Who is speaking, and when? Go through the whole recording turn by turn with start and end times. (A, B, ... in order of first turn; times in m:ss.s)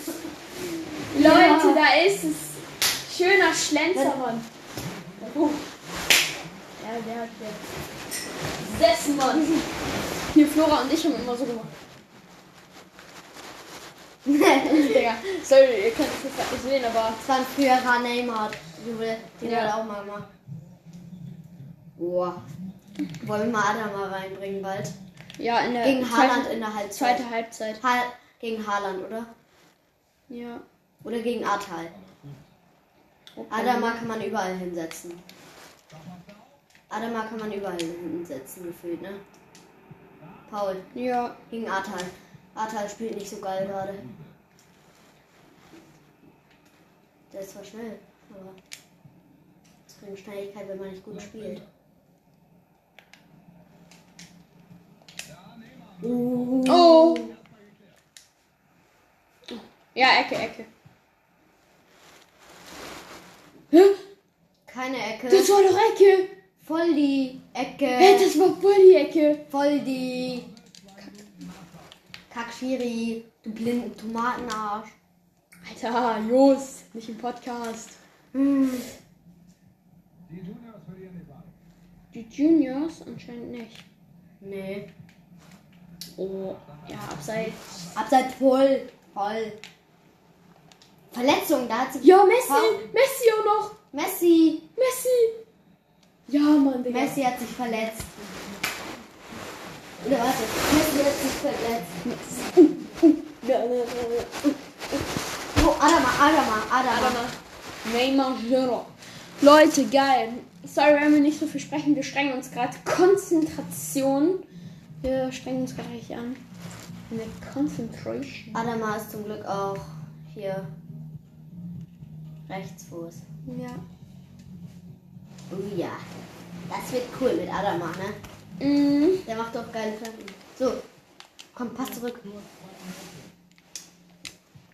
0:01.1-0:01.8 A
0:01.1-0:04.5 B
0:03.9-0:04.2 A
0:04.8-0:06.7 C
0:05.2-0:05.6 B
0:06.8-0:07.6 B
0:08.6-0:09.6 B
0:10.3-0:11.7 B
0:10.9-0:12.3 C
0:14.2-0:15.0 A
0:14.6-0:17.2 B
0:17.2-0:20.3 A
0:19.4-0:19.7 B
0:20.0-0:21.7 C
0:22.0-0:22.4 A
0:23.2-0:25.0 A
0:25.4-0:27.8 B
0:25.8-0:27.2 A
0:27.8-0:29.3 A
0:30.3-0:30.6 B
0:31.0-0:31.9 A
0:31.9-0:32.5 C
0:33.4-0:34.0 B
0:33.5-0:35.2 A
0:35.9-0:36.6 C
0:36.9-0:39.2 A
0:40.2-0:40.5 C
0:40.5-0:40.8 A
0:40.9-0:41.4 B
0:41.5-0:44.0 A
0:43.6-0:44.4 C
0:47.3-0:48.6 A
0:49.9-0:51.6 A
0:51.1-0:51.7 C
0:55.2-0:58.0 C
0:56.0-0:57.3 A
0:56.6-0:57.3 B
0:59.5-1:00.7 B
1:03.7-1:04.0 B
1:04.7-1:05.5 A
1:05.3-1:06.4 B
1:06.6-1:08.3 A
1:08.0-1:09.4 B
1:09.5-1:10.5 A
1:09.7-1:11.9 C
1:12.3-1:15.0 A
1:15.6-1:18.0 B
1:18.3-1:18.9 A
1:20.3-1:21.6 C
1:22.1-1:23.8 B
1:24.4-1:24.9 A
1:26.2-1:27.9 B
1:26.4-1:28.0 C
1:28.0-1:29.6 A
1:31.1-1:32.8 A
1:32.0-1:33.8 B
1:33.9-1:34.7 A
1:34.8-1:35.4 B
1:36.3-1:37.2 B
1:36.9-1:38.1 A
1:37.8-1:40.3 C
1:40.0-1:42.0 A
1:42.0-1:44.6 B
1:45.5-1:47.2 A
1:46.9-1:54.4 B
1:55.0-1:56.4 B
1:57.1-1:58.6 B
1:58.5-2:00.7 A
2:02.5-2:03.2 A
2:03.4-2:03.8 B
2:05.5-2:06.0 A
2:06.7-2:08.2 A
2:08.6-2:09.2 B
2:09.2-2:10.8 A
2:11.5-2:12.2 A
2:11.8-2:13.3 C